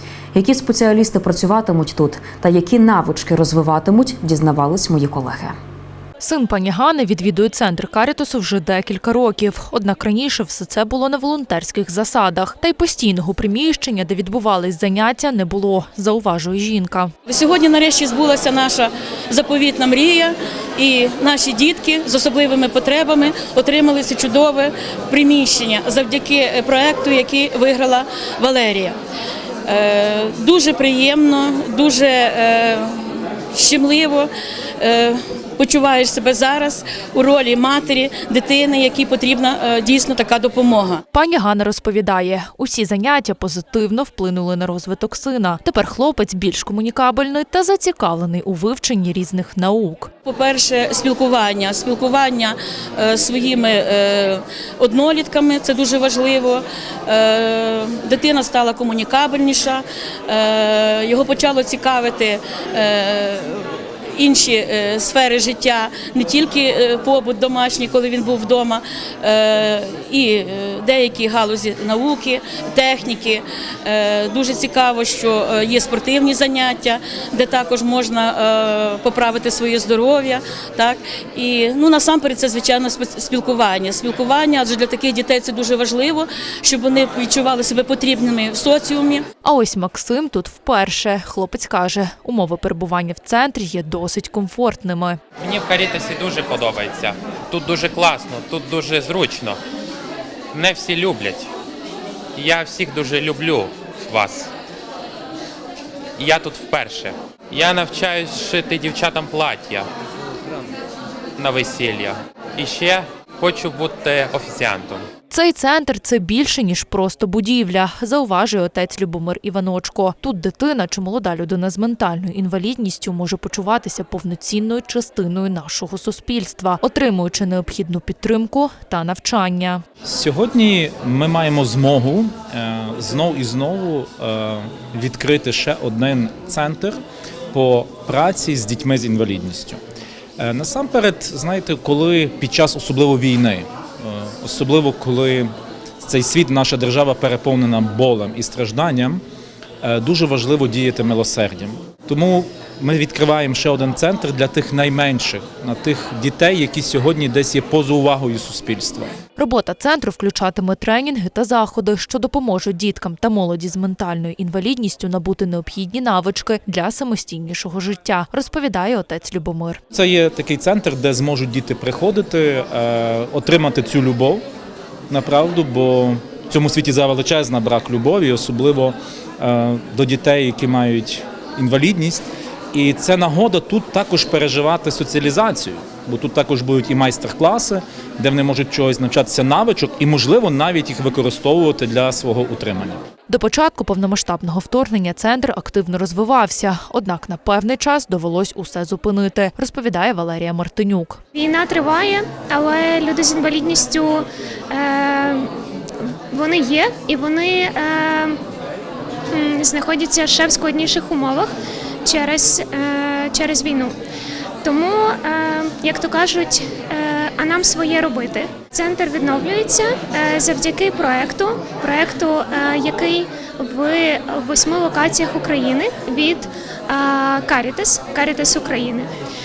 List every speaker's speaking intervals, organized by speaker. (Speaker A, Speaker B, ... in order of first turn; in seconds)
Speaker A: 0.3-5.5
Speaker B: 6.2-17.1, 41.1-50.1, 89.4-95.2, 115.3-129.8, 159.4-169.8, 193.3-201.2
Speaker C: 17.3-29.0, 29.7-33.0, 33.5-34.3, 34.8-41.0, 50.2-89.2
Speaker D: 95.4-99.6, 100.5-101.5, 102.3-104.5, 106.2-109.9, 111.4-115.1
Speaker E: 130.0-137.0, 137.5-139.8, 140.4-149.2, 149.8-159.1, 169.9-174.4, 175.1-193.0
Speaker F: 201.3-205.5, 206.3-208.4, 209.3-213.9, 214.6-229.1